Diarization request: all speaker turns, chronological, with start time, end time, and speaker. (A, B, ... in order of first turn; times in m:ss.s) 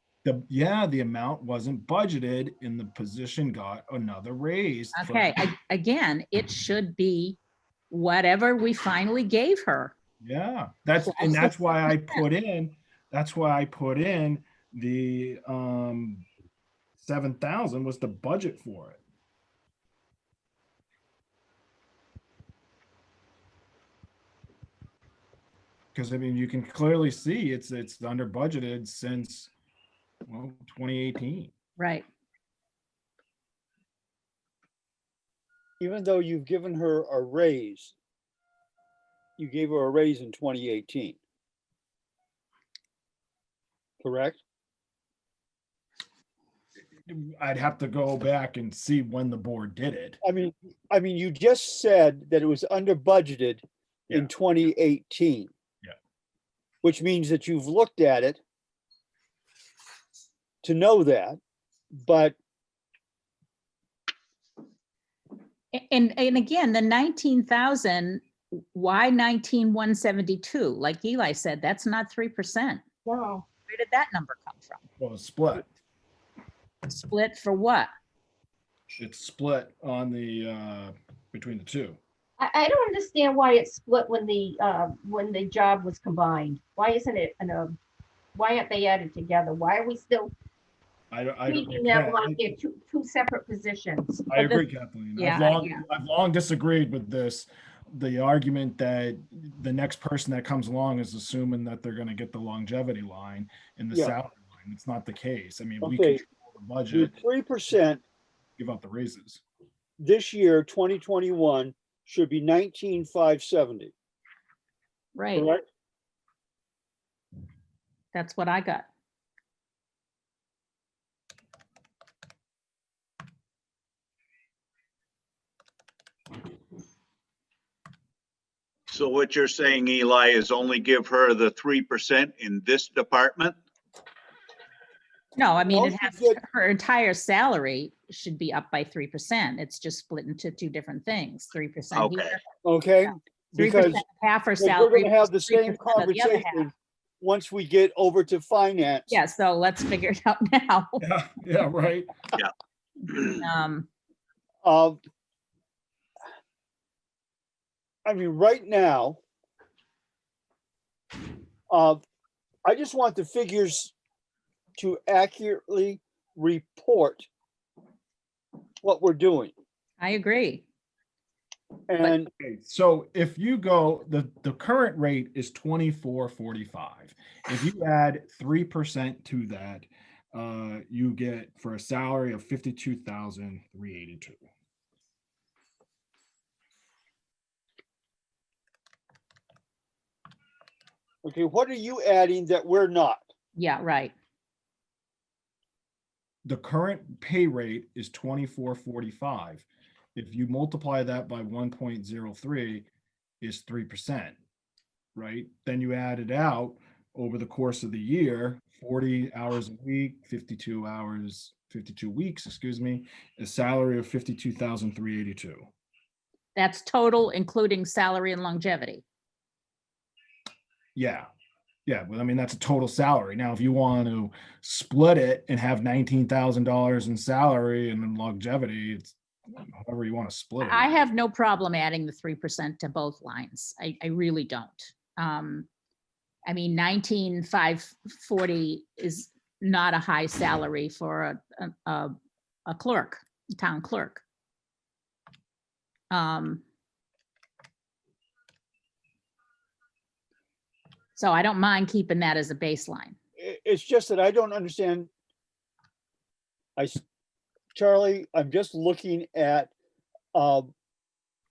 0:00.2-0:05.3 A
0:04.9-0:07.4 B
0:07.9-0:09.9 B
0:10.2-0:16.2 A
0:11.0-0:12.2 B
0:17.0-0:19.0 A
0:25.9-0:29.5 A
0:30.3-0:31.5 A
0:31.8-0:32.0 B
0:35.8-0:37.9 C
0:39.4-0:41.2 C
0:44.0-0:44.4 C
0:47.1-0:50.2 A
0:50.2-0:55.5 C
0:56.8-0:58.4 C
1:00.6-1:01.4 C
1:01.9-1:02.4 C
1:05.7-1:12.8 B
1:13.0-1:13.4 D
1:13.7-1:14.8 B
1:15.0-1:15.6 A
1:16.9-1:17.9 B
1:19.0-1:22.0 A
1:22.4-1:27.8 D
1:28.3-1:30.3 D
1:31.1-1:32.4 A
1:31.5-1:34.3 D
1:34.3-1:47.2 A
1:34.3-1:34.6 B
1:35.2-1:35.8 B
1:45.8-1:46.2 C
1:46.9-1:48.0 C
1:48.6-1:49.4 A
1:50.0-1:53.9 C
1:55.1-1:55.5 B
1:55.3-1:55.6 C
1:58.1-1:58.8 B
2:08.9-2:13.6 E
2:15.4-2:22.4 B
2:15.7-2:16.4 C
2:21.9-2:22.4 E
2:22.6-2:24.0 C
2:23.0-2:26.7 B
2:24.6-2:29.2 C
2:29.1-2:31.0 B
2:31.0-2:32.1 A
2:33.1-2:33.9 B
2:34.6-2:35.0 C
2:38.0-2:39.2 C
2:41.7-2:42.0 C
2:42.6-2:43.9 C
2:44.8-2:47.3 C
2:48.8-2:49.5 C
2:50.0-2:50.6 B
2:51.9-2:52.3 C
2:52.4-3:04.4 A
3:11.2-3:13.2 C
3:13.6-3:14.1 B
3:16.4-3:22.8 A
3:23.4-3:24.4 A
3:25.1-3:35.7 A
3:36.6-3:39.0 B
3:40.9-3:41.3 A
3:41.8-3:51.0 A
3:50.6-3:55.7 B
3:56.4-4:02.1 B
4:02.7-4:04.2 B
4:06.1-4:06.6 B
4:11.2-4:13.2 B
4:13.4-4:15.1 C
4:16.8-4:17.0 C
4:17.7-4:19.7 C
4:20.3-4:20.7 C